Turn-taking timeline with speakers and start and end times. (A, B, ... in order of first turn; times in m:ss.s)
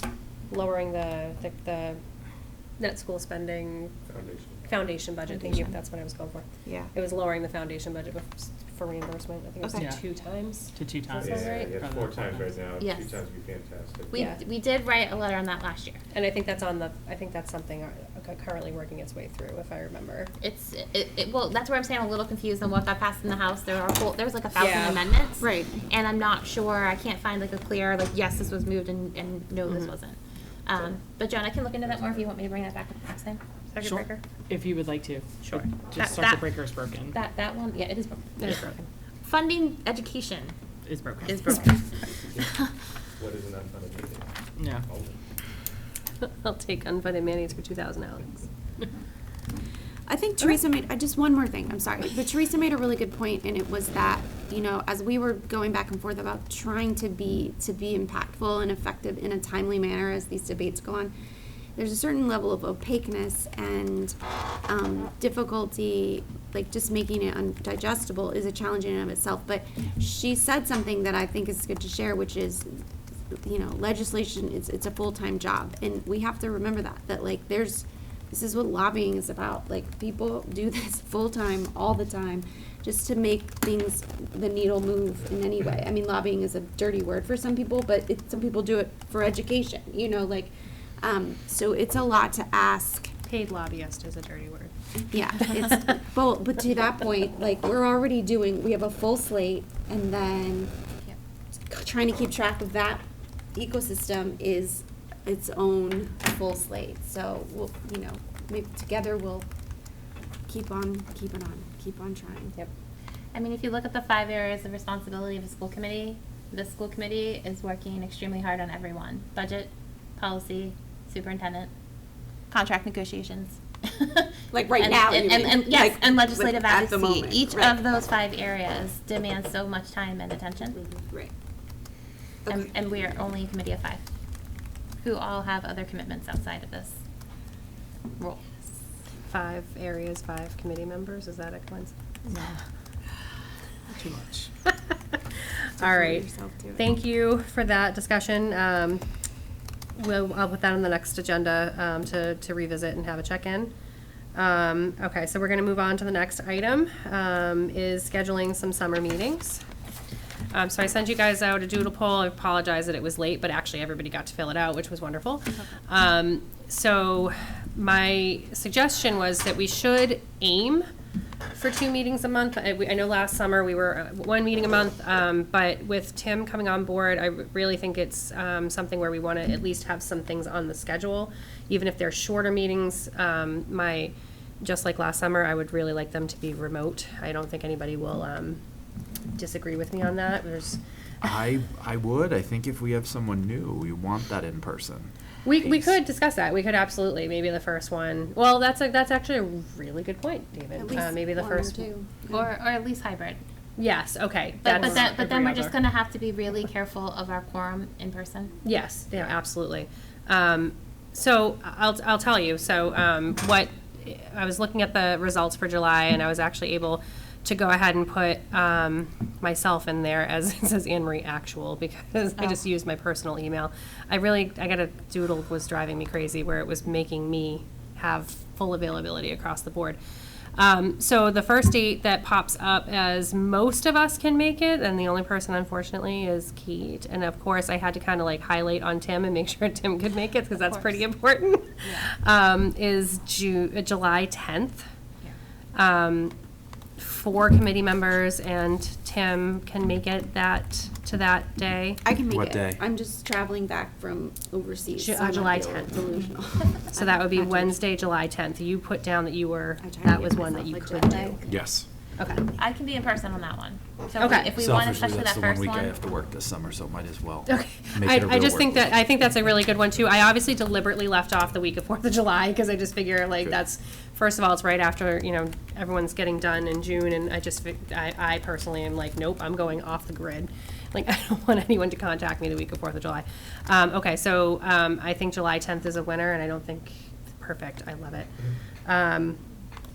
0:00.5-0:02.0 A
0:02.8-0:03.9 A
0:04.1-0:04.6 B
0:04.7-0:11.7 A
0:05.3-0:05.8 C
0:10.8-0:12.6 D
0:11.1-0:14.2 B
0:12.8-0:13.2 C
0:14.1-0:16.0 C
0:14.1-0:14.4 A
0:16.1-0:20.3 A
0:20.4-0:33.4 C
0:24.6-0:25.0 A
0:25.4-0:25.7 E
0:33.7-0:34.2 A
0:33.8-0:37.2 D
0:35.4-0:35.7 A
0:36.0-0:36.4 C
0:37.1-0:38.6 C
0:38.4-0:38.8 A
0:38.5-0:38.7 D
0:39.2-0:40.6 C
0:40.8-0:41.6 D
0:41.2-0:42.6 C
0:43.2-0:45.2 B
0:44.6-0:44.8 D
0:46.2-0:48.4 A
0:50.1-1:01.1 E
1:01.8-1:04.2 E
1:04.7-1:12.8 E
1:13.4-1:33.1 E
1:33.3-1:34.7 A
1:35.1-1:40.7 E
1:41.7-1:43.0 E
1:43.5-1:49.5 E
1:50.5-1:52.6 E
1:53.3-2:01.7 C
2:02.5-2:10.8 C
2:04.5-2:07.8 E
2:10.9-2:11.3 E
2:12.5-2:14.0 C
2:15.0-2:17.0 C
2:18.2-2:18.4 C
2:19.3-2:21.9 A
2:24.0-2:24.5 D
2:25.8-2:26.2 A
2:25.8-2:26.9 E
2:26.8-2:29.0 A
2:30.0-2:33.7 A
2:34.3-2:39.6 A
2:40.5-2:50.8 A
2:51.6-3:08.6 A
3:09.3-3:10.8 A
3:11.2-3:15.9 F
3:15.4-3:21.9 A
3:20.7-3:22.4 E
3:22.3-3:23.4 C
3:23.8-3:25.8 A
3:24.6-3:28.5 C
3:28.6-3:50.0 A
3:50.6-4:04.8 A
4:00.5-4:01.0 C
4:01.8-4:02.1 C
4:05.7-4:06.3 A
4:07.0-4:12.0 A
4:12.0-4:17.8 E
4:12.3-4:12.8 F
4:15.0-4:15.9 A
4:16.9-4:21.4 A
4:19.8-4:21.6 E
4:21.5-4:21.9 F
4:22.2-4:22.4 A
4:22.6-4:26.0 C
4:24.2-4:24.5 A
4:24.6-4:29.0 F
4:27.5-4:48.3 A
4:48.8-4:49.4 A